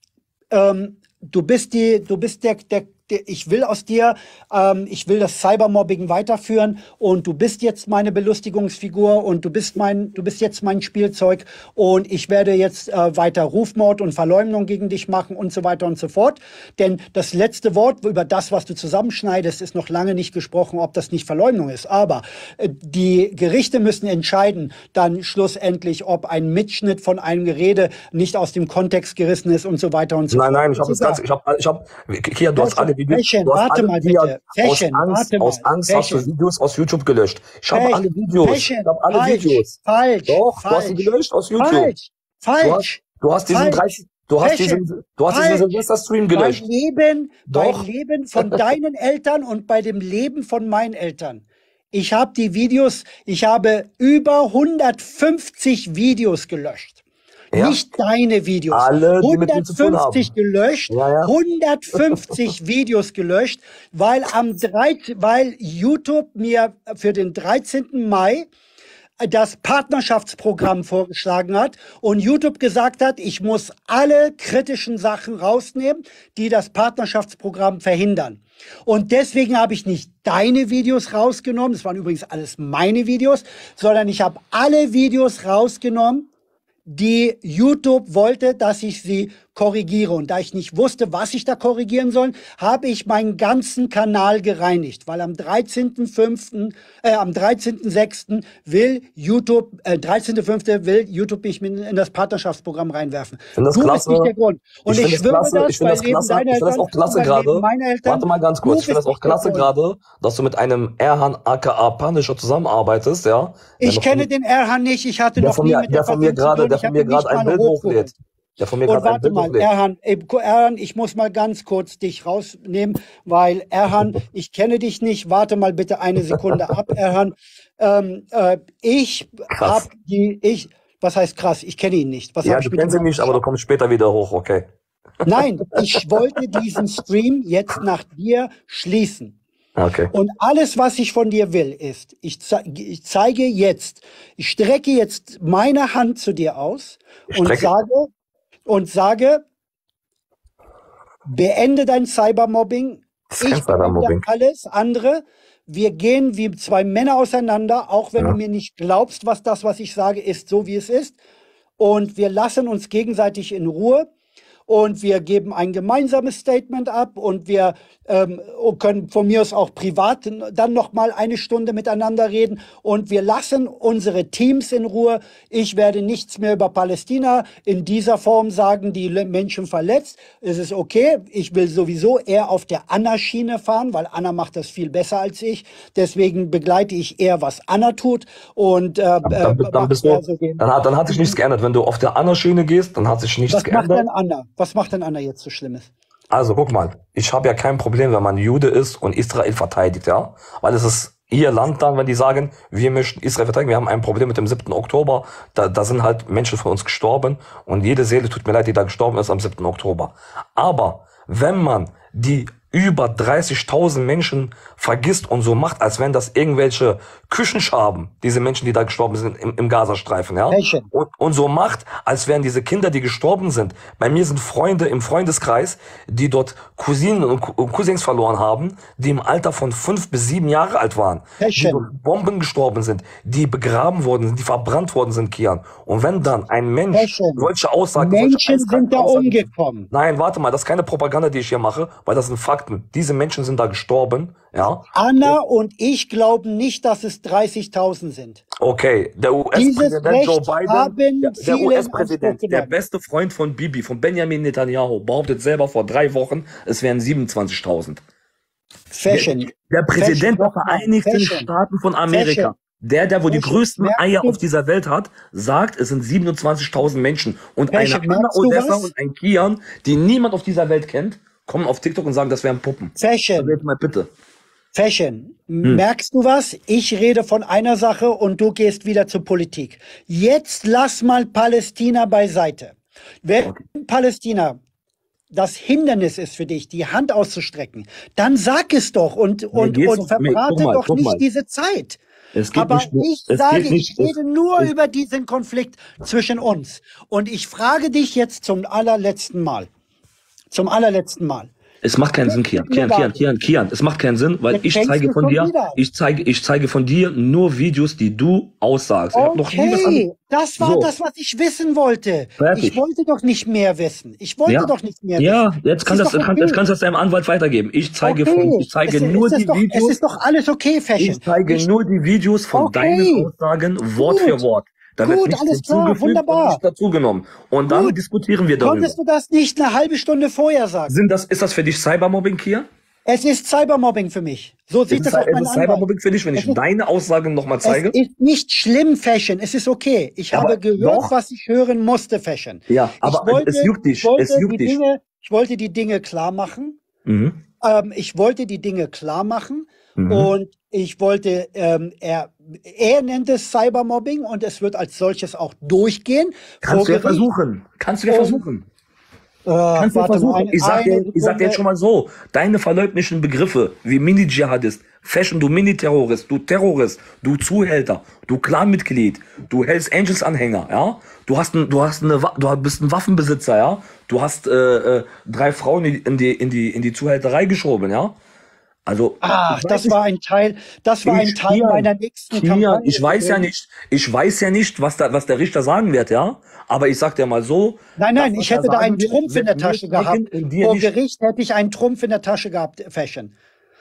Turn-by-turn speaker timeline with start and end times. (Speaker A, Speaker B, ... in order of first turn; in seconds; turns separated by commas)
Speaker A: 0.5-31.2, Speaker B: 30.3-41.9, Speaker A: 32.6-36.3, Speaker A: 37.7-43.8, Speaker B: 42.6-46.6, Speaker A: 44.4-45.7, Speaker A: 46.3-57.0, Speaker B: 47.5-47.9, Speaker B: 57.5-57.8, Speaker A: 57.5-68.5, Speaker B: 58.7-60.3, Speaker B: 60.9-61.3, Speaker B: 62.1-62.4, Speaker A: 69.2-86.3, Speaker A: 86.9-109.7, Speaker B: 103.6-104.3, Speaker B: 104.8-114.3, Speaker A: 113.8-118.1, Speaker B: 115.4-119.7, Speaker A: 118.9-133.4, Speaker B: 129.5-129.8, Speaker B: 132.4-134.7, Speaker A: 135.2-139.4, Speaker B: 135.9-136.4, Speaker B: 139.8-140.1, Speaker A: 140.1-148.1, Speaker B: 147.3-147.7, Speaker A: 148.7-149.4, Speaker A: 151.3-161.2, Speaker B: 153.3-154.2, Speaker A: 161.8-164.1, Speaker A: 164.7-191.4, Speaker B: 189.3-194.0, Speaker A: 193.5-195.9, Speaker B: 196.3-245.3, Speaker A: 220.5-220.9, Speaker A: 231.4-231.9, Speaker A: 236.9-239.9, Speaker A: 244.9-248.4, Speaker B: 248.6-258.0, Speaker A: 249.5-252.7, Speaker A: 258.9-261.5, Speaker B: 259.1-274.1, Speaker A: 262.1-262.5, Speaker A: 263.3-264.4, Speaker A: 267.7-268.9, Speaker A: 273.0-273.6, Speaker A: 274.7-284.6, Speaker A: 285.3-292.0, Speaker B: 289.5-291.2, Speaker B: 292.4-294.7, Speaker A: 292.5-299.7, Speaker A: 300.5-301.5, Speaker B: 301.8-310.1, Speaker A: 302.2-303.2, Speaker A: 304.5-305.8, Speaker A: 309.1-316.6, Speaker B: 310.6-310.9, Speaker B: 312.4-312.8, Speaker B: 314.5-320.0, Speaker A: 318.0-321.7, Speaker B: 321.0-328.9, Speaker A: 322.5-323.3, Speaker A: 324.0-324.4, Speaker A: 325.0-326.6, Speaker A: 327.7-328.0, Speaker A: 328.6-331.0, Speaker B: 330.9-332.7, Speaker A: 333.1-336.6, Speaker B: 334.9-338.0, Speaker A: 337.6-346.8, Speaker B: 340.3-341.1, Speaker B: 342.7-344.8, Speaker B: 347.1-347.4, Speaker A: 347.6-357.3, Speaker B: 350.0-350.3, Speaker B: 356.6-358.7, Speaker A: 358.1-358.4, Speaker A: 359.5-361.6, Speaker B: 359.8-378.2, Speaker B: 378.9-380.0, Speaker A: 379.2-383.5, Speaker B: 381.1-390.9, Speaker A: 388.0-393.3